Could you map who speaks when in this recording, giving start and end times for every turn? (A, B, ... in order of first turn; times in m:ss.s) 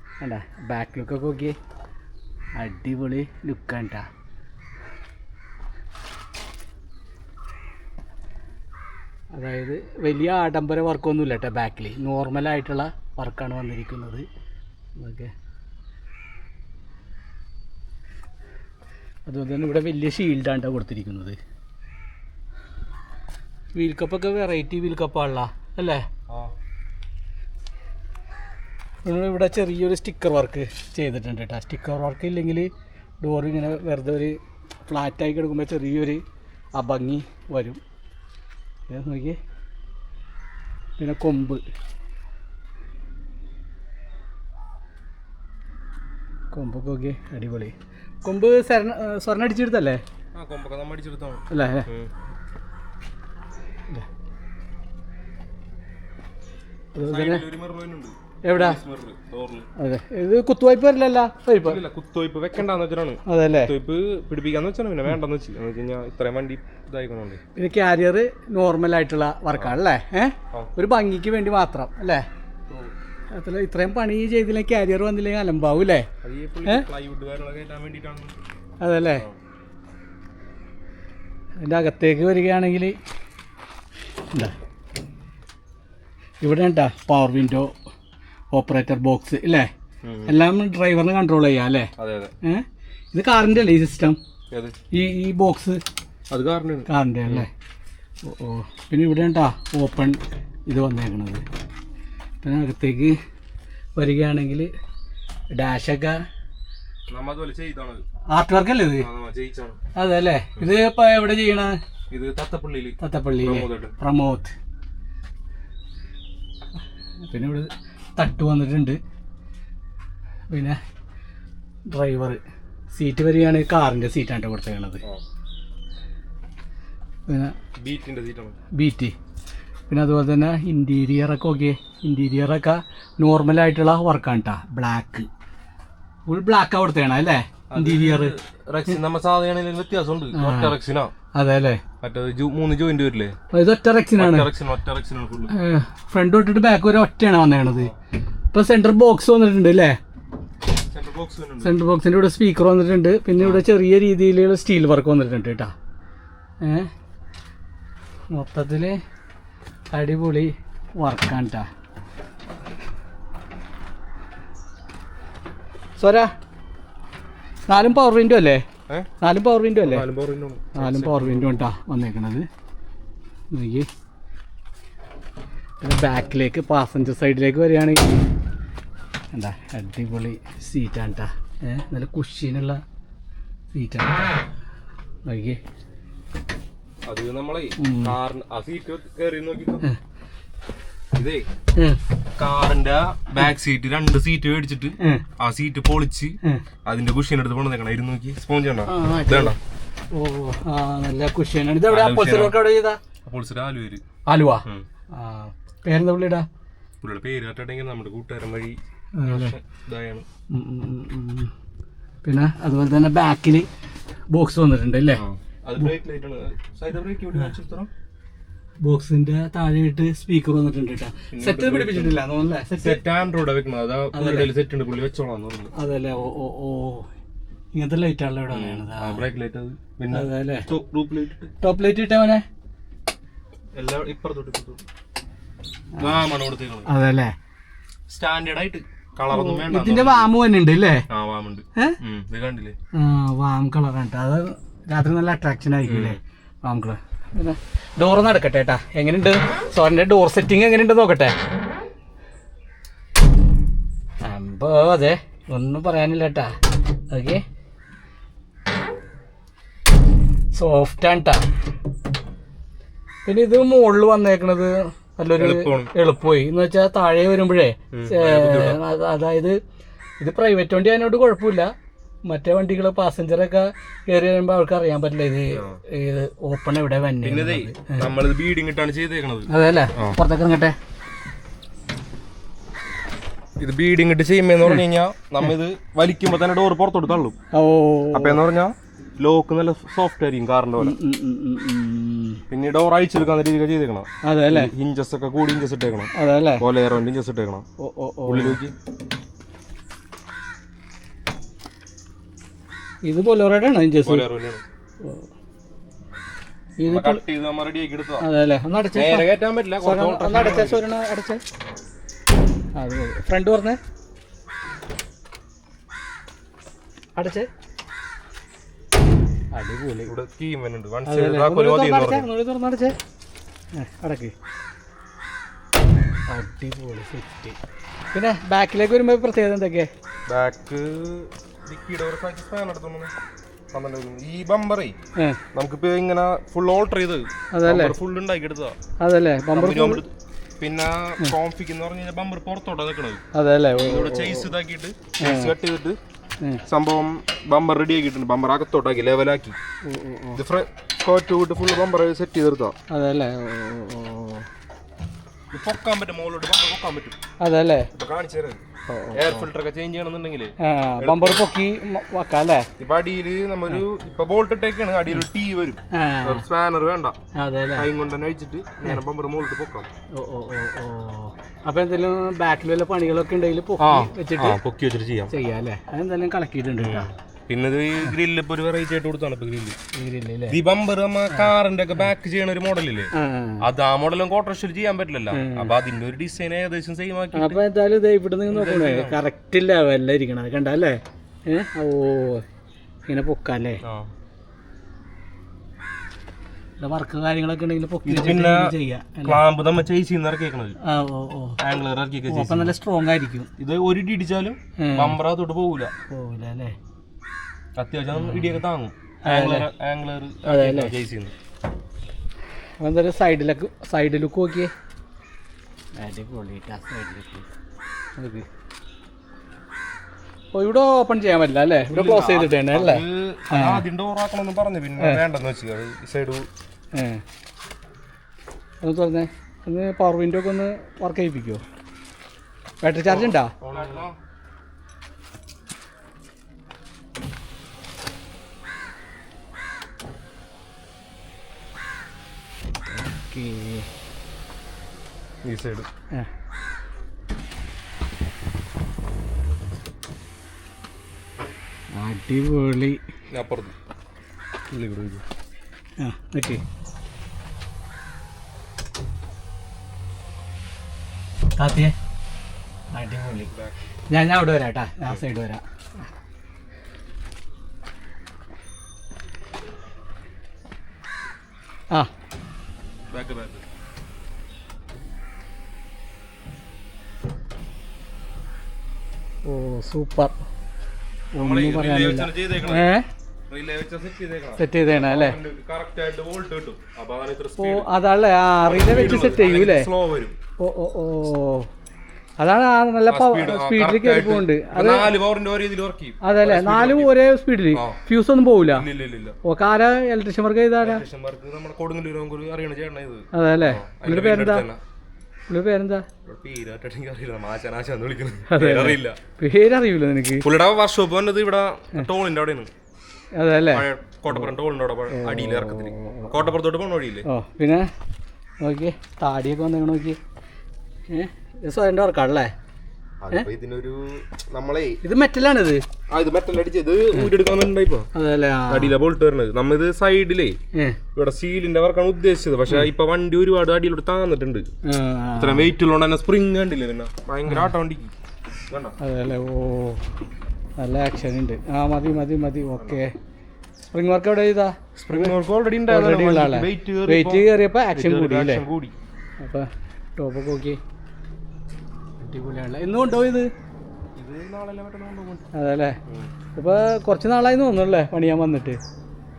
0:00.2-0:01.6 A
0:02.6-0:04.1 A
0:09.3-0:14.3 A
0:15.0-0:15.3 A
0:19.2-0:21.4 A
0:23.8-0:26.1 A
0:26.3-0:26.6 B
0:29.0-0:36.2 A
0:36.8-0:37.8 A
0:38.9-0:39.4 A
0:41.0-0:41.6 A
0:46.5-0:50.0 A
0:50.3-0:52.1 B
0:51.5-0:51.9 A
0:56.9-0:57.4 A
0:57.0-0:59.7 B
0:58.4-0:58.8 A
0:59.8-1:01.8 A
1:01.6-1:07.4 B
1:03.3-1:03.7 A
1:07.6-1:12.2 A
1:13.3-1:16.1 A
1:16.2-1:18.4 B
1:18.8-1:19.2 A
1:21.6-1:23.0 A
1:26.4-1:27.7 A
1:28.5-1:29.7 A
1:30.0-1:30.4 B
1:30.3-1:31.9 A
1:32.0-1:32.3 B
1:32.4-1:34.2 A
1:34.9-1:35.8 A
1:36.3-1:37.5 B
1:36.9-1:37.5 A
1:38.2-1:41.5 A
1:42.4-1:43.2 A
1:44.0-1:44.7 A
1:45.5-1:46.2 A
1:47.1-1:48.0 B
1:48.3-1:49.0 A
1:49.0-1:49.8 B
1:50.0-1:51.8 A
1:52.1-1:54.0 B
1:53.0-1:54.5 A
1:57.3-1:59.0 A
2:00.5-2:00.8 A
2:01.9-2:02.4 A
2:02.9-2:05.0 A
2:07.3-2:07.6 A
2:07.8-2:08.6 B
2:08.7-2:09.2 A
2:09.9-2:15.3 A
2:16.3-2:18.3 A
2:17.7-2:21.1 B
2:20.3-2:20.8 A
2:21.3-2:21.8 A
2:22.0-2:23.4 B
2:23.5-2:24.5 A
2:24.2-2:25.5 B
2:25.5-2:27.9 A
2:28.5-2:30.0 A
2:30.9-2:31.7 B
2:31.6-2:35.7 A
2:36.6-2:36.9 A
2:38.3-2:39.0 A
2:39.9-2:41.7 A
2:46.0-2:46.3 A
2:47.7-2:48.6 A
2:49.2-2:50.0 A
2:49.8-2:51.6 B
2:50.8-2:52.5 A
2:53.5-2:53.9 A
2:55.8-2:58.2 A
2:59.3-3:02.8 A
3:03.8-3:04.3 A
3:05.3-3:05.6 A
3:07.0-3:09.9 B
3:07.8-3:08.2 A
3:11.2-3:11.5 B
3:12.4-3:19.6 B
3:15.0-3:15.2 A
3:18.8-3:19.6 A
3:20.1-3:23.0 A
3:21.9-3:22.6 B
3:23.2-3:24.0 B
3:24.3-3:26.5 A
3:27.0-3:30.3 B
3:29.2-3:29.5 A
3:30.5-3:31.5 A
3:32.2-3:33.7 A
3:34.3-3:35.2 A
3:35.1-3:37.9 B
3:38.8-3:43.0 A
3:41.3-3:42.2 B
3:42.8-3:45.7 B
3:44.1-3:44.5 A
3:45.8-3:47.1 A
3:47.8-3:49.2 A
3:48.5-3:51.5 B
3:50.1-3:50.7 A
3:51.6-3:52.4 A
3:53.8-3:54.8 B
3:56.0-3:56.2 A
3:56.0-3:56.9 B
3:56.8-3:57.3 A
3:58.1-4:00.3 B
3:59.3-4:01.0 A
4:01.1-4:02.8 B
4:02.9-4:11.4 A
4:05.8-4:06.2 B
4:14.2-4:16.6 A
4:17.1-4:17.4 A
4:20.5-4:21.5 A
4:23.2-4:29.6 A
4:25.4-4:25.9 B
4:27.9-4:28.8 B
4:30.2-4:31.7 A
4:32.3-4:38.1 A
4:35.5-4:35.8 B
4:37.2-4:40.2 B
4:39.5-4:40.8 A
4:43.6-4:47.4 B
4:47.5-4:48.4 A
4:48.1-4:51.0 B
4:50.8-4:52.4 A
4:52.5-4:57.6 B
4:54.2-4:54.7 A
4:56.1-4:56.6 A
4:57.8-4:58.6 A
4:58.2-4:58.7 B
5:03.0-5:04.2 A
5:04.0-5:04.6 B
5:05.0-5:05.3 A
5:06.8-5:07.2 A
5:06.9-5:08.2 B
5:08.2-5:09.3 A
5:08.9-5:10.8 B
5:09.8-5:11.4 A
5:12.8-5:13.8 A
5:17.2-5:17.5 A
5:19.5-5:20.1 A
5:20.1-5:22.3 B
5:21.0-5:23.0 A
5:23.8-5:24.3 A
5:26.3-5:27.6 A
5:28.1-5:29.9 A
5:30.3-5:33.1 B
5:33.7-5:35.0 B
5:35.5-5:38.8 B
5:37.5-5:38.0 A
5:39.0-5:40.0 A
5:39.5-5:43.2 B
5:43.4-5:44.5 A
5:43.7-5:46.0 B
5:45.2-5:45.5 A
5:46.7-5:49.6 B
5:49.9-5:50.4 A
5:50.4-5:52.8 B
5:52.9-5:54.5 A
5:55.5-5:57.2 B
5:57.4-5:57.9 A
5:57.9-5:58.6 B
5:58.9-5:59.5 A
5:59.1-6:01.4 B
6:00.6-6:02.7 A
6:02.8-6:07.2 B
6:05.9-6:06.4 A
6:07.4-6:07.9 A
6:07.8-6:09.9 B
6:10.1-6:14.6 A
6:13.8-6:15.3 B
6:15.3-6:17.1 A
6:16.8-6:19.8 B
6:19.9-6:20.6 A
6:20.5-6:23.1 B
6:23.1-6:23.6 A
6:23.6-6:27.6 B
6:25.3-6:25.7 A
6:27.3-6:32.4 A
6:28.5-6:29.2 B
6:33.1-6:33.8 A
6:33.8-6:34.1 B
6:36.8-6:39.4 A
6:38.0-6:38.7 B
6:39.2-6:40.8 B
6:40.8-6:41.6 A
6:41.6-6:42.7 B
6:42.3-6:43.5 A
6:43.6-6:45.9 B
6:44.8-6:45.2 A
6:46.1-6:46.8 A
6:47.8-6:51.3 B
6:48.1-6:48.6 A
6:49.2-6:49.7 A
6:50.4-6:50.9 A
6:52.8-6:54.7 A
6:56.0-6:57.5 A
6:58.2-6:58.5 A
7:00.5-7:03.9 A
7:01.9-7:06.5 B
7:06.9-7:07.2 A
7:08.8-7:11.6 A
7:12.8-7:13.5 A
7:13.1-7:14.2 B
7:22.9-7:23.9 A
7:25.4-7:25.9 B
7:31.9-7:33.0 A
7:33.3-7:33.8 B
7:34.7-7:35.2 B
7:36.0-7:36.6 A
7:41.6-7:42.0 A
7:42.9-7:43.5 A
7:43.5-7:43.8 B
7:44.1-7:45.6 A
7:53.1-7:53.6 B
7:59.4-8:00.4 A
8:01.4-8:03.1 A
8:01.4-8:02.9 B
8:03.5-8:07.9 B
8:04.6-8:05.4 A
8:07.6-8:09.9 A
8:08.6-8:10.4 B
8:10.6-8:11.7 A
8:12.4-8:15.1 A
8:13.1-8:17.1 B
8:16.2-8:18.9 A
8:17.7-8:18.0 B
8:18.7-8:19.4 B
8:19.4-8:21.0 A
8:20.8-8:24.8 B
8:23.3-8:24.6 A
8:25.5-8:26.0 A
8:26.2-8:29.2 B
8:28.5-8:30.4 A
8:30.4-8:32.7 B
8:33.4-8:34.4 A
8:33.7-8:37.2 B
8:35.1-8:36.4 A
8:37.3-8:37.9 A
8:38.6-8:40.2 A
8:41.1-8:42.5 A
8:43.2-8:45.0 B
8:45.0-8:45.8 A
8:46.1-8:48.1 B
8:48.1-8:48.9 A
8:48.7-8:50.6 B
8:50.7-8:51.0 A
8:51.1-8:54.7 B
8:54.8-8:55.7 A
8:55.4-8:58.1 B
8:57.5-8:57.7 A
8:58.7-8:59.0 B
8:59.0-9:00.0 A
9:00.8-9:03.1 A
9:03.8-9:05.4 A
9:05.0-9:08.9 B
9:05.9-9:08.6 A
9:09.4-9:10.8 A
9:12.2-9:13.5 A
9:14.1-9:15.5 B
9:15.5-9:16.0 A
9:16.1-9:16.3 B
9:16.6-9:18.8 A